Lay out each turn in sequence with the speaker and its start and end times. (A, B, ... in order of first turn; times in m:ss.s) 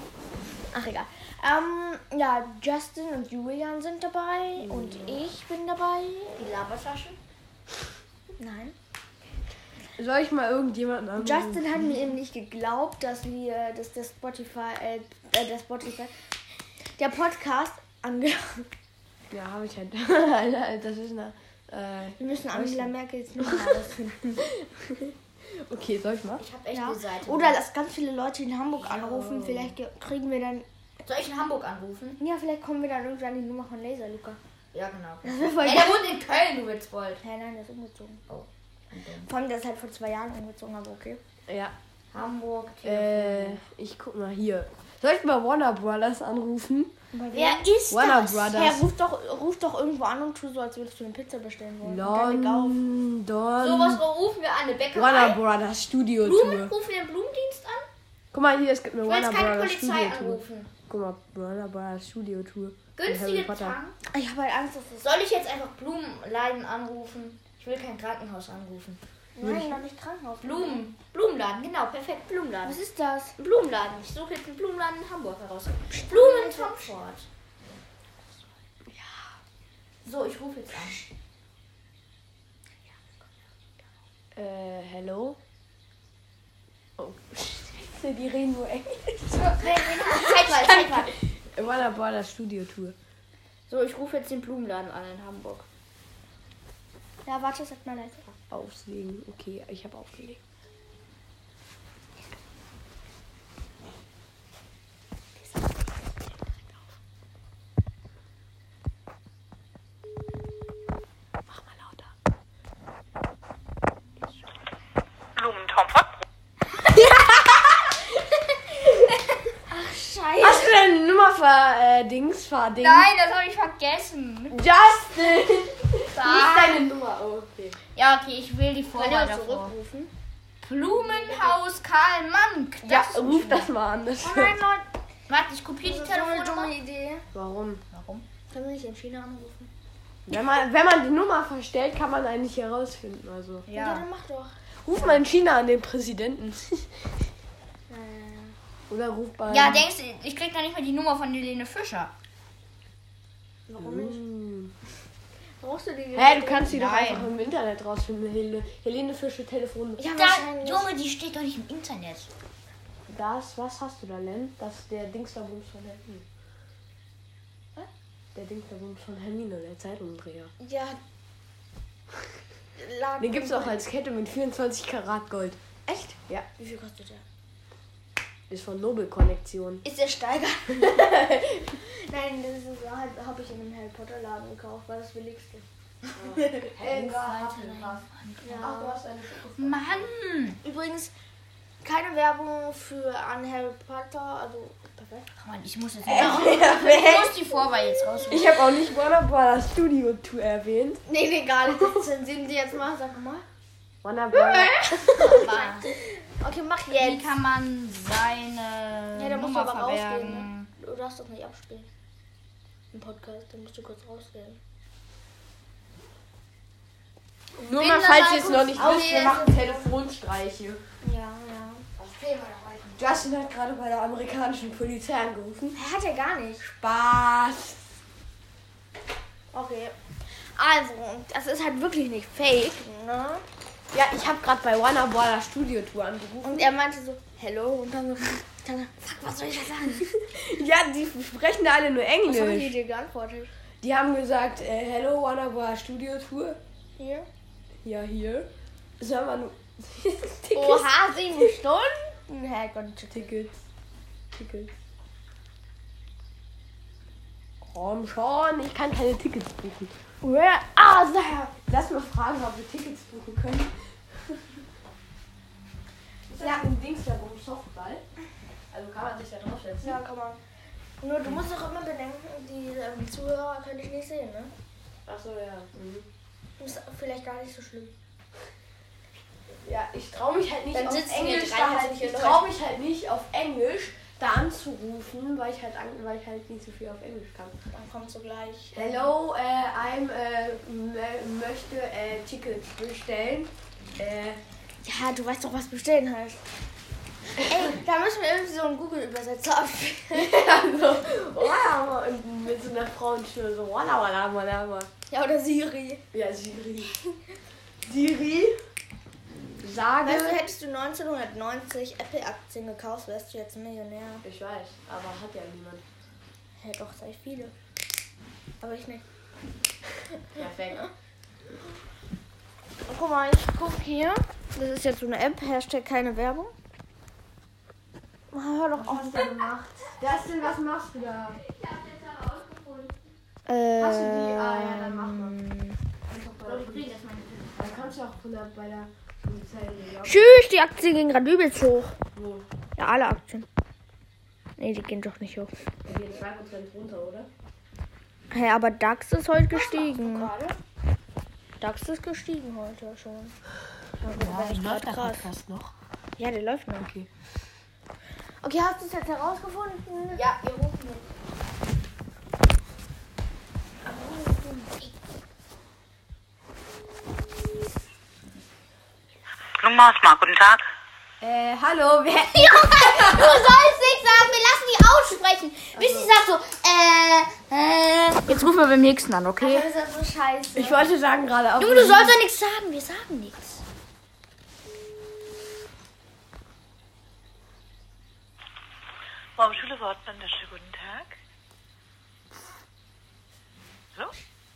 0:00.7-0:06.4 A
0:04.6-0:05.2 B
0:06.4-0:07.2 C
0:08.4-0:08.7 A
0:10.0-0:12.0 B
0:11.2-0:16.1 A
0:17.0-0:18.7 A
0:19.3-0:23.6 B
0:22.2-0:24.4 A
0:25.5-0:26.4 B
0:26.4-0:27.6 C
0:26.7-0:30.6 A
0:28.8-0:29.7 B
0:31.0-0:32.2 C
0:32.2-0:34.4 A
0:34.7-0:37.2 C
0:35.2-0:36.0 A
0:37.2-0:38.2 A
0:38.9-0:39.3 C
0:39.2-0:41.2 A
0:41.5-0:41.7 B
0:42.1-0:43.6 C
0:42.8-0:46.9 B
0:47.1-0:47.7 A
0:47.3-0:48.6 C
0:47.9-0:48.8 B
0:48.5-0:52.8 A
0:51.8-0:54.0 B
0:53.6-0:55.4 C
0:54.9-0:56.7 B
0:56.2-0:57.9 C
0:58.3-1:03.8 B
0:59.1-1:00.7 C
1:03.0-1:04.0 C
1:04.1-1:05.1 A
1:05.0-1:09.0 C
1:09.3-1:10.9 A
1:09.4-1:09.8 B
1:10.4-1:12.8 C
1:12.6-1:13.3 A
1:13.4-1:17.2 C
1:15.9-1:16.9 A
1:18.9-1:19.2 B
1:20.0-1:21.0 C
1:24.3-1:25.4 B
1:27.0-1:29.6 B
1:29.6-1:31.1 A
1:29.6-1:31.2 C
1:31.4-1:33.0 B
1:33.7-1:35.6 C
1:37.2-1:38.3 A
1:38.5-1:40.4 B
1:51.5-1:52.1 B
1:55.4-1:56.1 D
1:56.9-1:57.6 C
1:59.7-2:00.8 A
2:00.4-2:03.1 B
2:02.8-2:04.6 C
2:04.5-2:07.8 B
2:06.1-2:06.8 C
2:07.9-2:09.7 C
2:08.9-2:10.1 A
2:10.6-2:13.7 C
2:11.0-2:11.6 A
2:12.8-2:14.6 B
2:14.2-2:14.8 A
2:15.3-2:16.7 C
2:15.8-2:17.2 A
2:17.3-2:17.8 B
2:17.9-2:18.2 C
2:18.5-2:19.7 A
2:20.2-2:23.7 B
2:23.7-2:24.0 C
2:23.7-2:25.2 A
2:24.8-2:27.0 B
2:27.9-2:28.6 A
2:28.9-2:29.8 B
2:29.5-2:32.1 C
2:33.7-2:34.2 A
2:33.8-2:34.7 B
2:35.6-2:36.7 A
2:36.1-2:40.0 B
2:36.7-2:37.3 C
2:40.0-2:40.9 A
2:40.2-2:42.3 C
2:43.1-2:46.2 B
2:48.3-2:50.5 B
2:50.6-2:51.0 A
2:52.8-2:53.8 A
2:53.2-2:55.6 B
2:55.8-2:57.2 A
2:58.5-2:59.8 B
2:59.8-3:05.6 A
3:06.2-3:08.0 B
3:06.8-3:08.8 C
3:08.4-3:09.0 A
3:08.6-3:10.1 B
3:09.6-3:10.6 C
3:10.6-3:11.1 A
3:11.8-3:15.3 A
3:15.4-3:18.5 C
3:16.0-3:17.3 B
3:16.1-3:17.0 A
3:18.3-3:21.0 B
3:21.0-3:23.4 A
3:24.0-3:25.4 B
3:24.9-3:27.3 A
3:25.0-3:25.9 C
3:26.9-3:30.7 C
3:29.1-3:31.9 A
3:32.9-3:34.6 A
3:37.6-3:40.8 B
3:37.8-3:39.4 C
3:37.8-3:39.9 A
3:41.0-3:41.9 A
3:43.0-3:45.8 B
3:45.7-3:46.6 A
3:46.6-3:47.8 B
3:49.5-3:49.9 A
3:50.6-3:53.4 A
3:53.9-3:56.7 B
3:56.4-4:00.1 A
4:00.3-4:02.7 B
4:02.2-4:03.5 A
4:03.8-4:06.6 B
4:07.0-4:07.3 A
4:07.8-4:11.4 B
4:10.5-4:13.3 A
4:13.1-4:13.6 B
4:14.3-4:14.7 B
4:17.6-4:19.9 B
4:20.2-4:21.5 A
4:21.7-4:24.4 B
4:26.3-4:28.0 B
4:26.4-4:26.6 A
4:28.7-4:30.0 B
4:29.8-4:30.4 A
4:31.0-4:34.5 A
4:35.0-4:36.1 B
4:36.6-4:37.9 A
4:39.6-4:47.6 B
4:40.7-4:42.5 A
4:47.7-4:49.1 A
4:48.7-4:54.4 B
4:54.8-4:56.4 A
4:57.4-5:00.3 A
5:00.1-5:04.9 B
5:05.1-5:06.0 A
5:06.1-5:07.0 B
5:07.8-5:08.6 B
5:09.6-5:10.4 B
5:10.0-5:14.2 A
5:14.2-5:15.8 B
5:16.6-5:17.5 A
5:18.6-5:19.0 A
5:20.3-5:20.9 B
5:22.9-5:26.5 A
5:28.3-5:29.4 A
5:28.7-5:31.4 B
5:31.4-5:33.1 C
5:33.4-5:34.6 A
5:33.8-5:35.4 B
5:36.1-5:36.9 B
5:36.4-5:37.7 C
5:37.5-5:40.3 B
5:40.0-5:41.9 A
5:42.1-5:42.4 B
5:42.8-5:43.4 A
5:44.6-5:45.7 A
5:45.8-5:47.3 B
5:48.3-5:50.3 A
5:49.5-5:50.6 C
5:51.6-5:53.4 A
5:54.0-5:55.7 B
5:54.0-5:55.3 A
5:56.2-5:56.9 A
5:56.8-5:57.1 B
5:58.4-6:00.2 A
6:00.1-6:01.1 C
6:03.8-6:04.9 A
6:09.6-6:10.6 D
6:11.2-6:13.4 B
6:12.3-6:19.7 C
6:15.7-6:16.1 B
6:19.4-6:20.9 A
6:20.6-6:22.2 B
6:21.6-6:23.6 C
6:29.4-6:31.1 D